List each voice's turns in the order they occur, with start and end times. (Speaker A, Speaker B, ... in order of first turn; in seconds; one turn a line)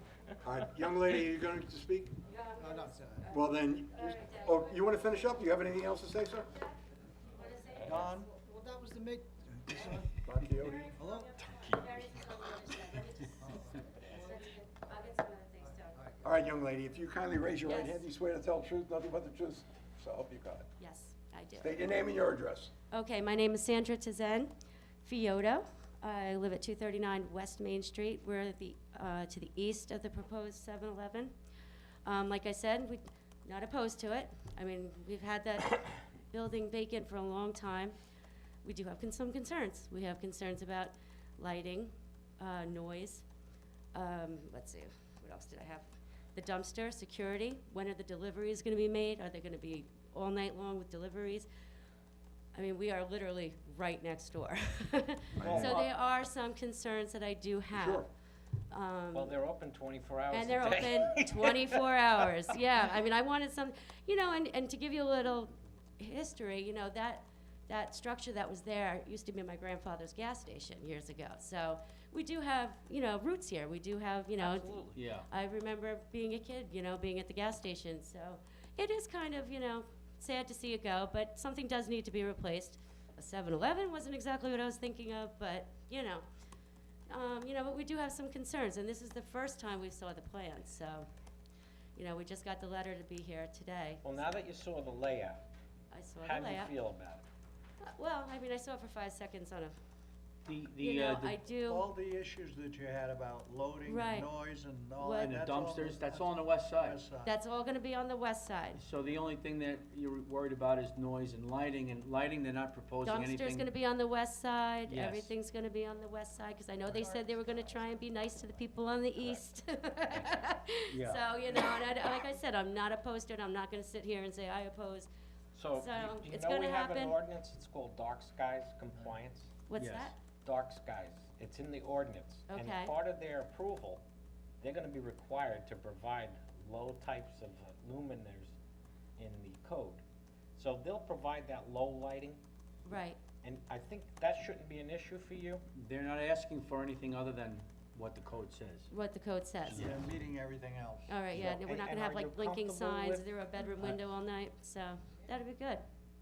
Speaker A: 0.4-2.2
Speaker B: 2.3-4.5
Speaker C: 2.6-3.4
Speaker A: 3.3-6.5
Speaker B: 7.3-7.9
Speaker D: 7.8-8.3
Speaker C: 8.2-10.3
Speaker A: 10.2-10.8
Speaker D: 10.6-11.4
Speaker B: 10.6-16.0
Speaker C: 13.4-14.3
Speaker C: 15.9-16.2
Speaker A: 16.2-20.7
Speaker B: 17.6-18.0
Speaker B: 20.8-21.8
Speaker A: 21.6-22.7
Speaker B: 22.9-24.5
Speaker B: 25.0-31.3
Speaker B: 32.0-38.0
Speaker B: 38.6-43.2
Speaker B: 43.9-51.5
Speaker B: 52.5-58.1
Speaker A: 55.4-55.8
Speaker E: 55.5-55.9
Speaker A: 57.7-58.1
Speaker B: 58.7-59.4
Speaker E: 59.1-62.5
Speaker B: 60.3-86.3
Speaker E: 74.4-74.9
Speaker F: 74.9-75.3
Speaker B: 87.1-91.1
Speaker B: 92.0-94.4
Speaker E: 94.0-95.4
Speaker B: 95.9-96.8
Speaker E: 96.2-97.2
Speaker B: 97.8-99.8
Speaker F: 100.5-101.4
Speaker B: 100.8-101.9
Speaker D: 101.6-107.4
Speaker B: 103.8-104.3
Speaker B: 105.0-105.3
Speaker F: 105.2-107.0
Speaker B: 107.2-108.8
Speaker F: 108.8-113.7
Speaker B: 113.0-125.1
Speaker F: 114.9-115.3
Speaker D: 116.9-117.3
Speaker E: 120.1-120.5
Speaker F: 120.9-121.2
Speaker E: 125.5-129.5
Speaker B: 125.7-127.2
Speaker B: 129.7-130.2
Speaker F: 129.8-130.1
Speaker E: 130.3-134.0
Speaker B: 132.5-133.0
Speaker E: 134.6-138.6
Speaker E: 139.2-140.0
Speaker E: 140.6-142.4
Speaker B: 142.8-143.3
Speaker E: 143.3-145.6
Speaker F: 145.8-148.9
Speaker B: 148.9-149.9
Speaker F: 149.6-150.0
Speaker D: 149.7-151.2
Speaker B: 151.1-155.8
Speaker E: 151.4-153.3